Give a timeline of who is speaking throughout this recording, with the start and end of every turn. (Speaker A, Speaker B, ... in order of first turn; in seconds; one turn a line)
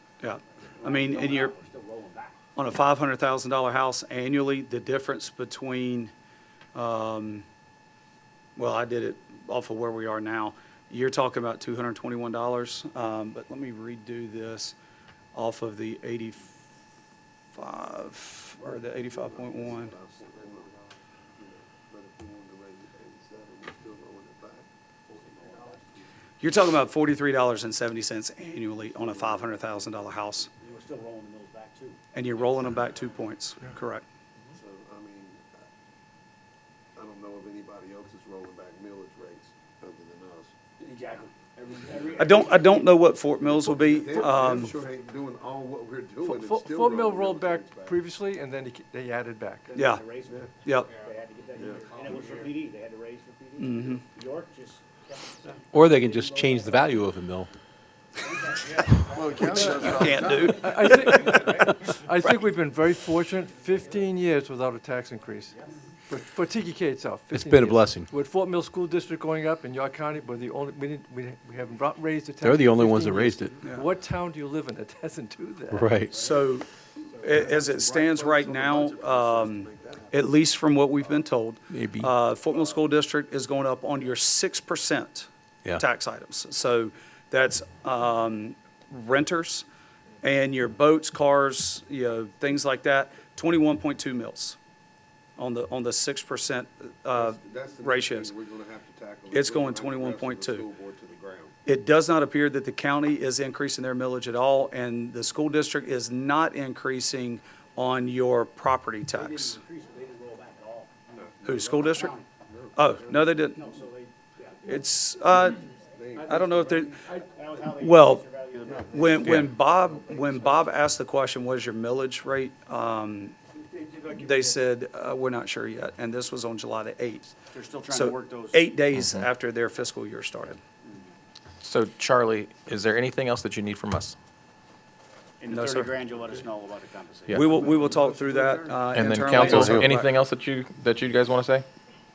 Speaker A: 0.2-1.5
Speaker B: 0.5-2.4
Speaker A: 2.5-6.1
Speaker A: 6.7-7.4
Speaker A: 8.6-14.8
Speaker A: 15.3-16.6
Speaker A: 17.5-19.9
Speaker C: 18.6-20.8
Speaker C: 21.4-24.7
Speaker B: 25.1-26.0
Speaker A: 26.4-30.5
Speaker C: 28.9-29.5
Speaker B: 30.6-32.0
Speaker A: 32.1-34.0
Speaker C: 34.5-35.6
Speaker C: 36.9-40.5
Speaker B: 40.8-42.9
Speaker A: 42.2-44.7
Speaker C: 43.5-48.0
Speaker D: 46.3-49.7
Speaker B: 49.7-57.1
Speaker A: 49.7-50.0
Speaker A: 50.6-50.9
Speaker C: 51.6-51.8
Speaker A: 53.6-54.0
Speaker E: 55.7-57.5
Speaker B: 58.2-62.0
Speaker C: 59.1-60.6
Speaker A: 59.8-60.8
Speaker D: 60.6-65.5
Speaker D: 66.1-75.8
Speaker E: 67.3-68.1
Speaker E: 72.4-73.6
Speaker E: 75.7-76.3
Speaker A: 76.1-89.6
Speaker C: 77.2-80.3
Speaker E: 81.7-82.1
Speaker A: 90.2-94.6
Speaker A: 95.4-98.3
Speaker C: 97.1-101.5
Speaker A: 99.3-100.7
Speaker A: 101.7-109.6
Speaker B: 109.1-112.3
Speaker A: 111.4-112.1
Speaker A: 112.8-113.6
Speaker B: 112.9-114.8
Speaker A: 114.7-115.6
Speaker B: 115.5-120.6
Speaker C: 115.9-116.8
Speaker A: 116.2-117.0
Speaker A: 117.8-118.3
Speaker A: 118.8-123.4
Speaker F: 119.2-119.5
Speaker B: 123.9-124.3
Speaker A: 124.0-127.3
Speaker B: 127.5-128.7
Speaker A: 127.9-130.6
Speaker B: 130.8-131.1
Speaker F: 131.6-134.2
Speaker B: 135.4-138.7
Speaker A: 135.5-135.9
Speaker A: 137.3-140.1
Speaker F: 138.9-141.7
Speaker C: 139.4-139.9